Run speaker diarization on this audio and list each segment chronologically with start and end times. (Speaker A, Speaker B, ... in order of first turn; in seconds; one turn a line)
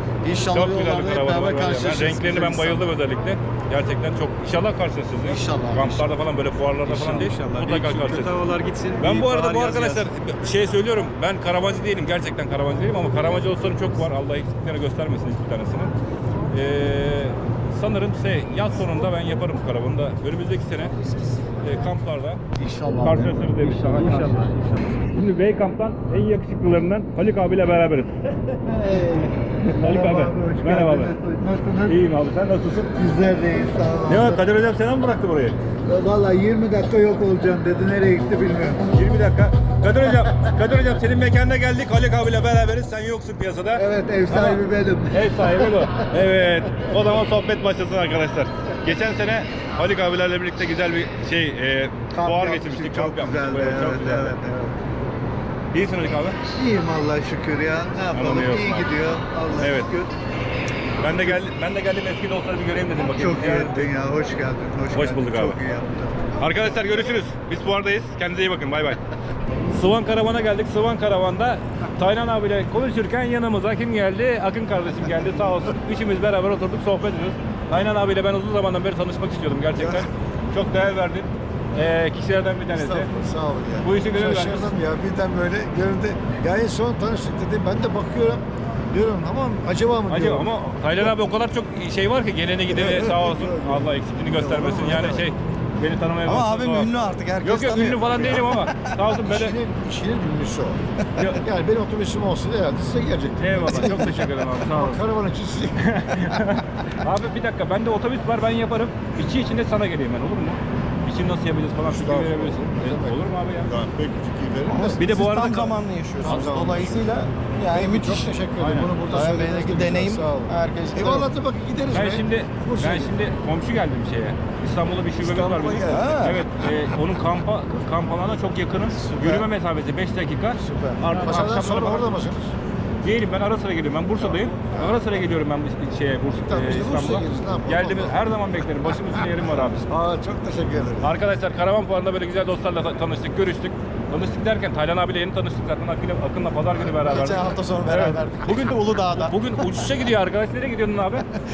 Speaker A: 0.2-2.9
Speaker B: 0.5-8.4
Speaker A: 5.2-6.1
Speaker C: 6.9-10.0
Speaker A: 6.9-7.5
Speaker B: 9.0-15.9
Speaker B: 16.5-20.9
Speaker B: 21.6-22.4
Speaker A: 22.6-24.5
Speaker B: 23.0-28.6
Speaker B: 29.6-31.2
Speaker D: 29.8-31.4
Speaker E: 30.4-31.7
Speaker B: 31.8-33.1
Speaker E: 33.5-33.8
Speaker D: 33.7-34.2
Speaker B: 34.0-35.6
Speaker D: 36.1-38.7
Speaker E: 36.1-38.8
Speaker B: 38.9-54.4
Speaker E: 44.0-45.0
Speaker D: 44.1-45.0
Speaker A: 52.3-54.4
Speaker E: 52.4-54.4
Speaker B: 55.7-56.4
Speaker E: 56.7-60.0
Speaker B: 58.1-58.9
Speaker A: 58.1-59.9
Speaker B: 59.6-59.9
Speaker B: 61.0-63.9
Speaker E: 63.2-66.0
Speaker A: 63.3-63.9
Speaker A: 64.7-65.6
Speaker B: 64.9-65.6
Speaker B: 66.4-69.0
Speaker B: 69.7-83.1
Speaker D: 82.8-90.5
Speaker B: 83.8-84.8
Speaker E: 85.6-86.3
Speaker B: 90.1-99.6
Speaker D: 92.7-93.8
Speaker A: 96.3-98.8
Speaker D: 99.4-100.8
Speaker B: 101.2-101.4
Speaker D: 101.5-104.2
Speaker B: 103.4-105.1
Speaker D: 104.8-105.7
Speaker B: 105.8-113.7
Speaker D: 111.9-113.0
Speaker A: 114.7-121.3
Speaker E: 114.7-118.4
Speaker B: 115.0-116.4
Speaker D: 116.2-117.0
Speaker D: 117.9-120.5
Speaker B: 118.6-119.0
Speaker E: 119.0-121.3
Speaker D: 121.1-122.2
Speaker B: 121.9-132.2
Speaker A: 125.3-126.4
Speaker E: 125.9-126.2
Speaker D: 131.1-132.5
Speaker E: 131.5-131.9
Speaker B: 133.0-139.9
Speaker D: 136.5-138.1
Speaker D: 139.9-140.9
Speaker B: 141.0-151.3
Speaker A: 147.1-149.3
Speaker E: 147.4-147.9